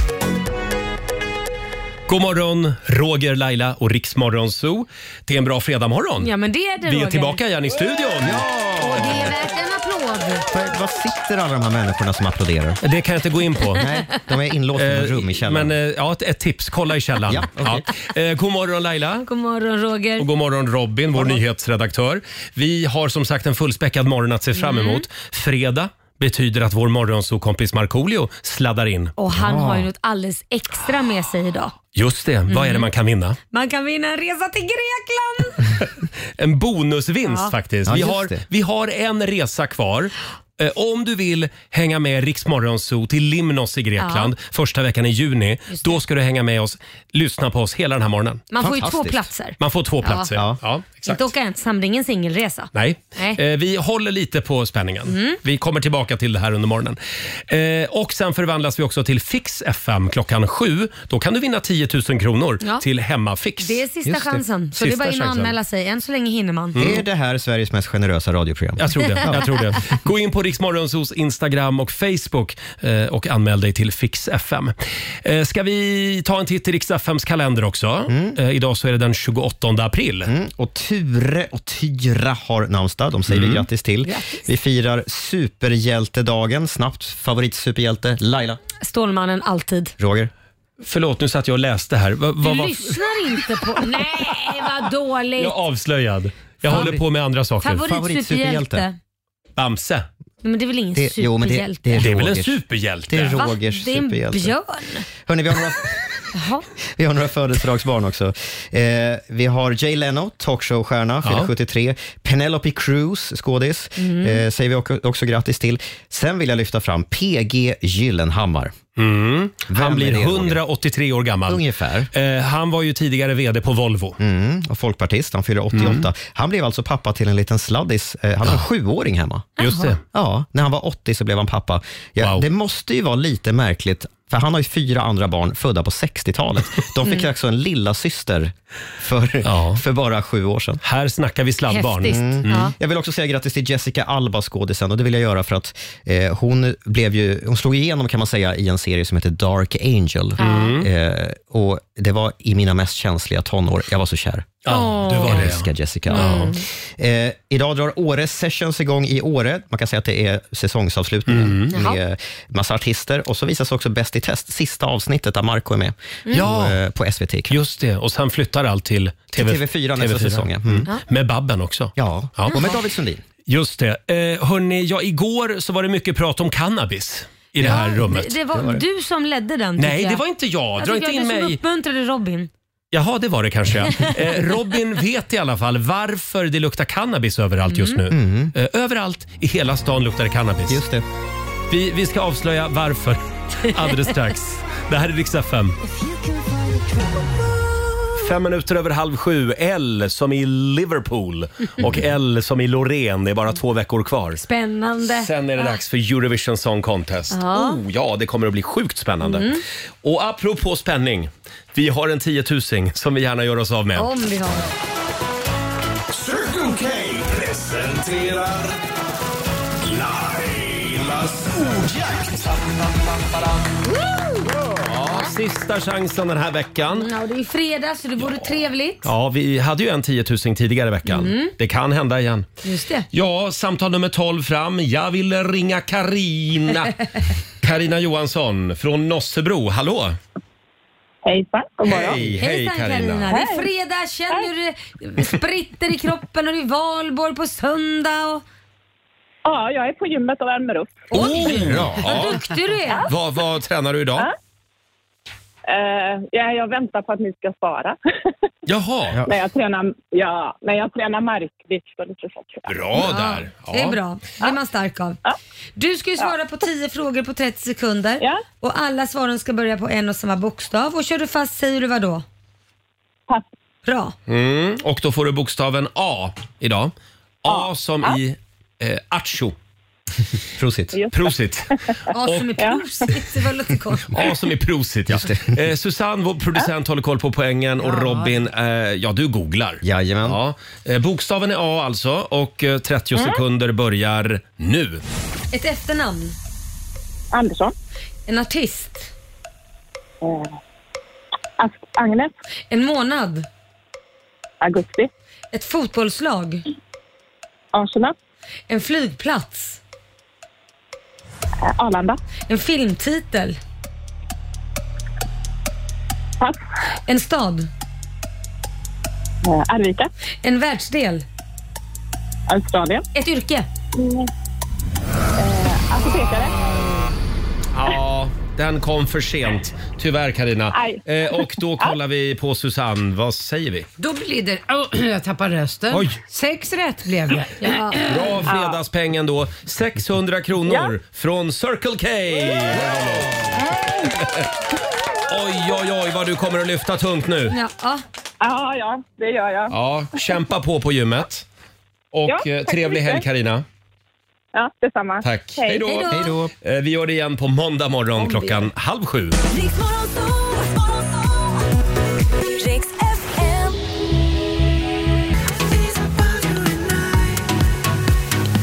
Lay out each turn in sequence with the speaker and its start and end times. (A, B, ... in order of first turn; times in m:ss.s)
0:02.1-0:06.3 A
0:06.2-0:07.4 B
0:06.8-0:08.4 A
0:08.2-0:09.4 C
0:08.8-0:10.5 B
0:10.5-0:12.8 C
0:12.8-0:13.8 A
0:13.8-0:15.7 C
0:14.8-0:19.3 A
0:17.3-0:17.9 C
0:19.2-0:20.3 B
0:20.2-0:29.2 A
0:24.6-0:25.0 B
0:29.2-0:31.8 B
0:29.4-0:29.9 C
0:32.0-0:33.4 A
0:32.5-0:32.9 B
0:33.5-0:35.7 B
0:36.4-0:48.4 A
0:37.2-0:37.5 B
0:37.9-0:38.4 C
0:44.0-0:44.3 B
0:45.7-0:46.0 B
0:48.5-0:50.3 B
0:48.6-0:49.3 C
0:49.6-0:51.3 A
0:50.3-0:50.6 C
0:51.1-0:53.4 B
0:52.7-0:57.0 A
0:55.1-0:55.4 B
0:57.5-1:04.2 A
1:03.6-1:06.8 B
1:04.8-1:05.6 A
1:06.7-1:07.0 A
1:06.8-1:09.6 C
1:08.8-1:20.3 A
1:18.1-1:18.4 C
1:20.3-1:28.6 C
1:23.3-1:23.6 A
1:24.0-1:24.4 B
1:28.8-1:29.9 B
1:30.0-1:30.3 C
1:30.8-1:33.1 A
1:32.4-1:35.6 B
1:35.4-1:37.8 A
1:36.7-1:37.0 B
1:37.6-1:39.0 B
1:37.7-1:38.9 C
1:39.6-1:40.0 A
1:40.4-1:42.1 B
1:41.0-1:44.6 C
1:42.0-1:43.4 A
1:43.4-1:45.0 B
1:45.2-1:46.0 C
1:46.3-1:46.6 B
1:47.0-1:58.8 C
1:51.2-1:51.5 A
1:54.0-1:54.4 B
1:59.0-2:04.2 A
1:59.7-2:00.6 C
2:01.5-2:02.1 C
2:04.2-2:09.5 C
2:05.7-2:06.0 A
2:09.6-2:10.0 A
2:09.6-2:09.9 B
2:10.1-2:20.8 C
2:12.2-2:12.5 A
2:19.4-2:19.8 A
2:20.8-2:22.7 A
2:21.7-2:22.7 B
2:22.1-2:47.6 C
2:30.4-2:30.7 B
2:30.4-2:30.9 A
2:34.7-2:36.5 A
2:34.7-2:35.4 B
2:36.1-2:36.6 B
2:41.3-2:41.7 A
2:41.7-2:42.0 B
2:46.3-2:46.8 A
2:47.5-2:52.6 A
2:49.3-2:50.9 C
2:52.0-2:53.2 C
2:52.5-2:52.8 B
2:53.5-2:58.4 A
2:57.6-3:00.2 B
2:58.5-2:58.8 C
2:59.8-3:01.6 A
3:00.8-3:02.5 B
3:02.9-3:10.8 A
3:07.7-3:08.0 B
3:08.1-3:08.5 C
3:10.7-3:11.0 C
3:11.7-3:15.8 A
3:18.2-3:24.4 A
3:24.4-3:25.8 B
3:25.0-3:29.5 A
3:27.3-3:27.8 B
3:29.2-3:29.6 B
3:30.0-3:34.1 A
3:34.0-3:34.7 B
3:36.3-3:38.5 D
3:39.9-3:41.5 D
3:43.9-3:44.5 B
3:44.8-3:47.1 A
3:46.9-3:49.1 B
3:48.2-3:52.5 A
3:51.1-3:51.5 B
3:52.6-3:53.1 B
3:53.1-3:57.0 A
3:57.6-4:00.2 A
4:01.2-4:02.2 E
4:01.8-4:03.3 A
4:02.2-4:08.4 B
4:03.3-4:03.7 E
4:09.4-4:11.1 E
4:11.1-4:12.5 A
4:11.1-4:13.1 B
4:11.6-4:11.9 C
4:13.1-4:14.3 A
4:15.7-4:18.0 E
4:18.7-4:19.2 A
4:19.2-4:22.7 E
4:22.7-4:24.0 A
4:23.0-4:25.2 B
4:25.8-4:32.2 B
4:33.9-4:34.1 B
4:34.3-4:39.6 A
4:37.5-4:38.2 E
4:40.6-4:41.0 C
4:41.1-4:42.5 A
4:42.1-4:44.1 B
4:44.1-4:55.0 A
4:45.1-4:45.6 C
4:47.8-4:48.4 F
4:49.8-4:50.4 C
4:53.2-4:53.4 E
4:55.5-4:56.4 B
4:57.3-4:57.7 E
4:58.3-4:59.1 B
5:00.2-5:00.6 E
5:01.6-5:02.3 E
5:02.7-5:03.5 B
5:04.6-5:05.1 E
5:05.5-5:06.6 B
5:07.7-5:08.2 E
5:08.7-5:09.8 B
5:11.7-5:12.2 E
5:12.5-5:13.6 B
5:17.1-5:17.7 B
5:19.4-5:20.1 E
5:20.4-5:21.2 B
5:22.5-5:23.0 E
5:23.1-5:23.7 B
5:24.0-5:24.3 E
5:25.4-5:26.6 E
5:27.7-5:33.9 A
5:30.7-5:32.0 E
5:34.0-5:38.4 F
5:35.9-5:36.2 A
5:37.6-5:38.1 B
5:38.1-5:43.5 A
5:38.5-5:38.8 E
5:40.7-5:40.9 E
5:43.6-5:44.2 E
5:44.2-5:44.5 A
5:45.3-5:47.6 A
5:47.5-5:48.0 B
5:48.4-5:49.7 E
5:49.7-5:51.4 A
5:52.1-5:53.6 A
5:52.3-5:53.2 E
5:54.5-5:55.8 E
5:55.2-5:59.4 A
5:55.8-5:56.4 B
5:56.1-5:56.5 C
5:59.5-6:01.5 G
6:02.6-6:03.7 G
6:05.7-6:07.3 G